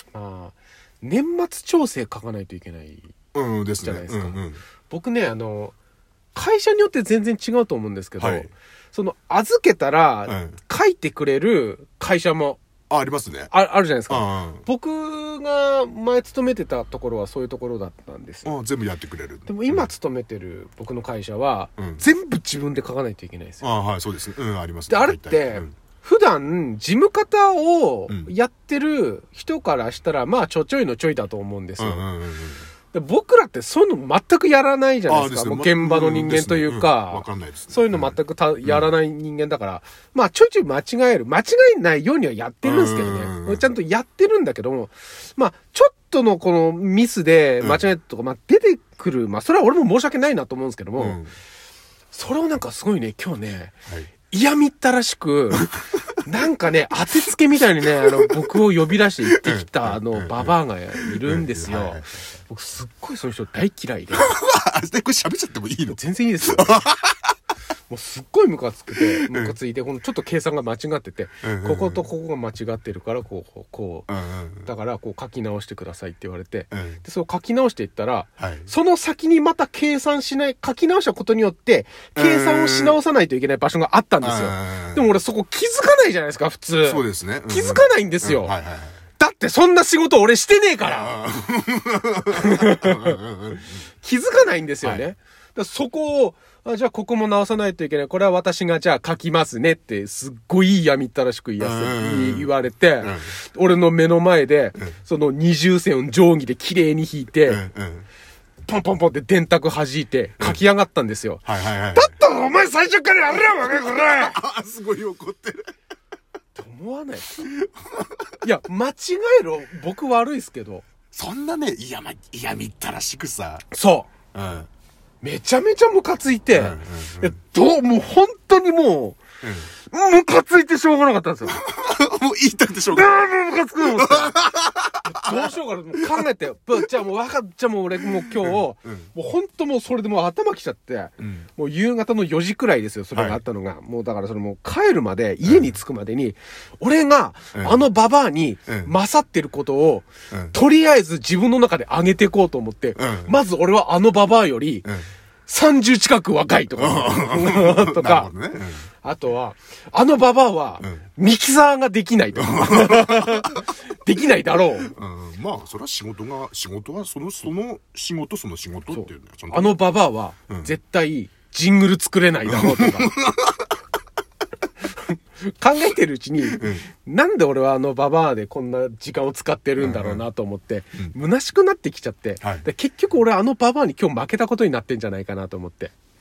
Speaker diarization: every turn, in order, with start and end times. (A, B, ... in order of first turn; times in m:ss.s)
0:00.1-0:03.1 A
0:03.3-0:04.6 B
0:03.8-0:05.8 A
0:06.3-0:12.6 A
0:08.2-0:08.5 B
0:10.3-0:10.6 B
0:12.9-0:13.5 B
0:13.5-0:18.5 A
0:14.1-0:14.6 B
0:18.4-0:19.9 B
0:19.5-0:23.6 A
0:21.8-0:22.0 B
0:23.6-0:25.7 B
0:24.9-0:32.0 A
0:31.8-0:32.6 B
0:32.9-0:51.2 A
0:35.1-0:38.9 B
0:42.6-0:43.7 B
0:51.0-0:51.3 B
0:52.1-0:53.8 A
0:54.3-1:04.3 A
0:59.2-1:02.1 B
1:04.1-1:07.2 B
1:06.0-1:06.8 A
1:07.9-1:14.1 A
1:09.0-1:09.6 B
1:11.4-1:12.0 B
1:14.1-1:14.7 B
1:14.6-1:28.5 A
1:16.7-1:17.0 B
1:18.4-1:18.7 B
1:22.1-1:23.0 B
1:24.2-1:25.1 B
1:26.8-1:29.0 B
1:29.2-1:31.2 A
1:30.9-1:33.8 B
1:32.3-1:33.2 A
1:34.0-1:47.6 A
1:41.6-1:43.3 B
1:47.4-1:48.1 B
1:48.7-1:54.4 A
1:51.4-1:52.1 B
1:53.5-1:55.6 B
1:56.5-1:57.4 A
1:57.4-1:58.1 B
1:58.4-2:00.8 A
2:01.1-2:03.7 B
2:03.7-2:04.1 A
2:04.3-2:04.7 B
2:05.2-2:09.2 A
2:06.5-2:07.3 B
2:09.4-2:09.7 B
2:09.9-2:11.6 A
2:11.5-2:16.0 B
2:12.9-2:14.4 A
2:15.0-2:34.9 A
2:18.2-2:19.1 B
2:21.2-2:21.5 B
2:23.1-2:23.4 B
2:25.4-2:25.7 B
2:27.5-2:27.8 B
2:33.0-2:33.3 B
2:35.5-2:38.3 A
2:36.8-2:38.8 B
2:39.0-2:44.9 A
2:42.4-2:43.6 B
2:44.9-2:49.8 B
2:48.9-2:53.2 A
2:50.5-2:50.7 B
2:52.4-2:53.7 B
2:55.0-3:05.9 A
2:56.4-2:56.8 B
2:59.8-3:00.2 B
3:02.4-3:02.7 B